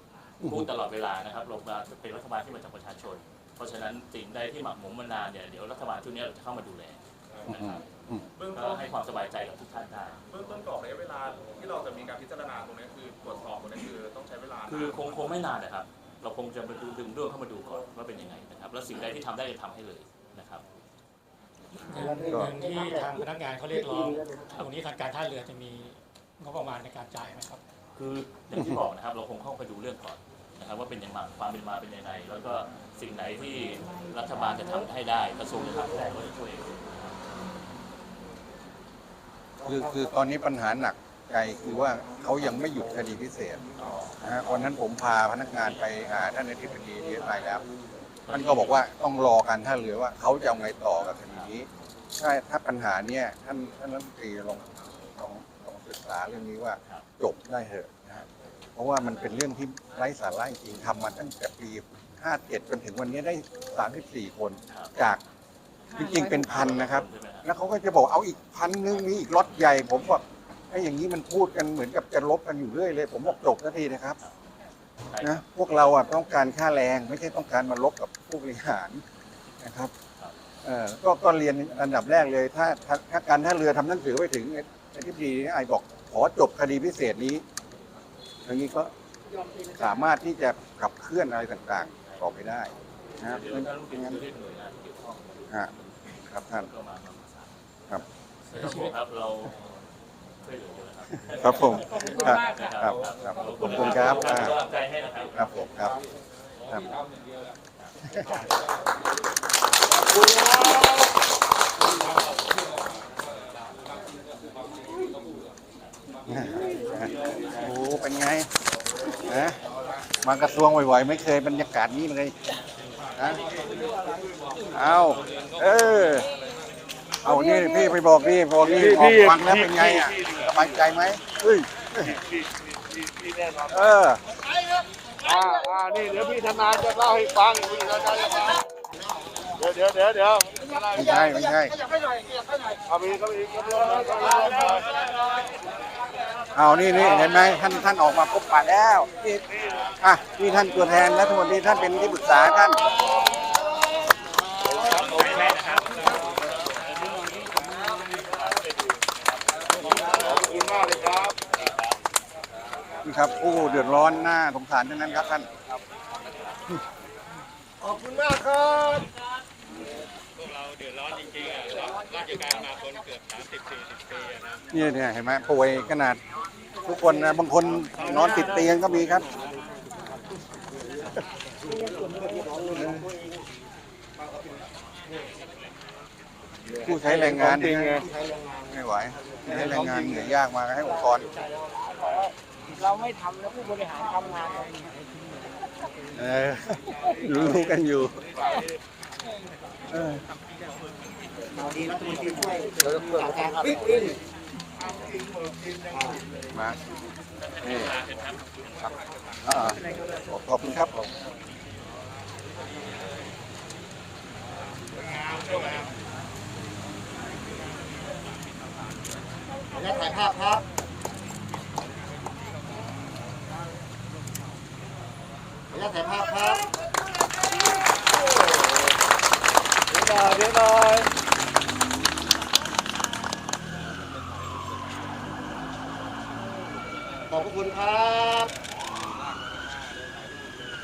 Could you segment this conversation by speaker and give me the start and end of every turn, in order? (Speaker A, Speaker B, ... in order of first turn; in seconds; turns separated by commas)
Speaker A: 0.4-7.8, Speaker B: 7.3-7.5, Speaker C: 7.5-8.2, Speaker B: 8.3-8.9, Speaker A: 8.5-10.2, Speaker B: 10.3-15.4, Speaker A: 14.7-20.6, Speaker D: 21.8-27.6, Speaker E: 22.0-23.2, Speaker E: 23.9-24.5, Speaker A: 27.9-37.2, Speaker C: 39.6-43.6, Speaker A: 43.8-44.2, Speaker C: 44.2-47.6, Speaker A: 48.3-48.8, Speaker C: 48.3-58.2, Speaker C: 58.8-65.2, Speaker C: 66.0-74.2, Speaker A: 66.0-67.5, Speaker A: 75.1-75.4, Speaker C: 75.2-79.0, Speaker C: 79.6-79.9, Speaker C: 80.6-87.4, Speaker C: 88.5-88.9, Speaker C: 89.7-94.2, Speaker A: 92.0-92.3, Speaker A: 93.2-97.5, Speaker C: 96.3-96.7, Speaker A: 98.5-99.5, Speaker D: 98.6-98.9, Speaker A: 100.4-105.3, Speaker C: 101.3-104.5, Speaker C: 105.3-106.0, Speaker C: 106.7-107.0, Speaker C: 108.0-108.4, Speaker F: 110.3-110.9, Speaker C: 116.3-118.5, Speaker C: 119.2-119.6, Speaker C: 120.2-122.3, Speaker C: 123.2-123.4, Speaker C: 124.7-126.3, Speaker C: 127.2-132.2, Speaker F: 128.6-130.1, Speaker F: 132.1-133.8, Speaker C: 133.7-134.2, Speaker F: 135.2-138.6, Speaker F: 139.6-141.2, Speaker C: 140.9-141.8, Speaker F: 142.9-144.8, Speaker C: 146.6-149.4, Speaker C: 150.0-152.8, Speaker F: 154.8-155.8, Speaker F: 160.0-161.4, Speaker C: 163.0-165.5, Speaker E: 168.0-168.8, Speaker C: 174.7-176.2, Speaker C: 176.8-179.3, Speaker E: 182.1-182.8, Speaker C: 182.7-183.1, Speaker C: 186.8-188.0, Speaker F: 186.9-188.0, Speaker E: 188.0-188.6, Speaker C: 188.7-191.3, Speaker C: 196.1-198.2, Speaker C: 199.9-200.2, Speaker E: 201.6-204.1, Speaker A: 207.4-208.4, Speaker C: 207.6-207.9, Speaker C: 209.4-211.1, Speaker B: 215.3-215.8, Speaker E: 219.8-220.6, Speaker E: 225.8-226.7, Speaker E: 237.3-238.5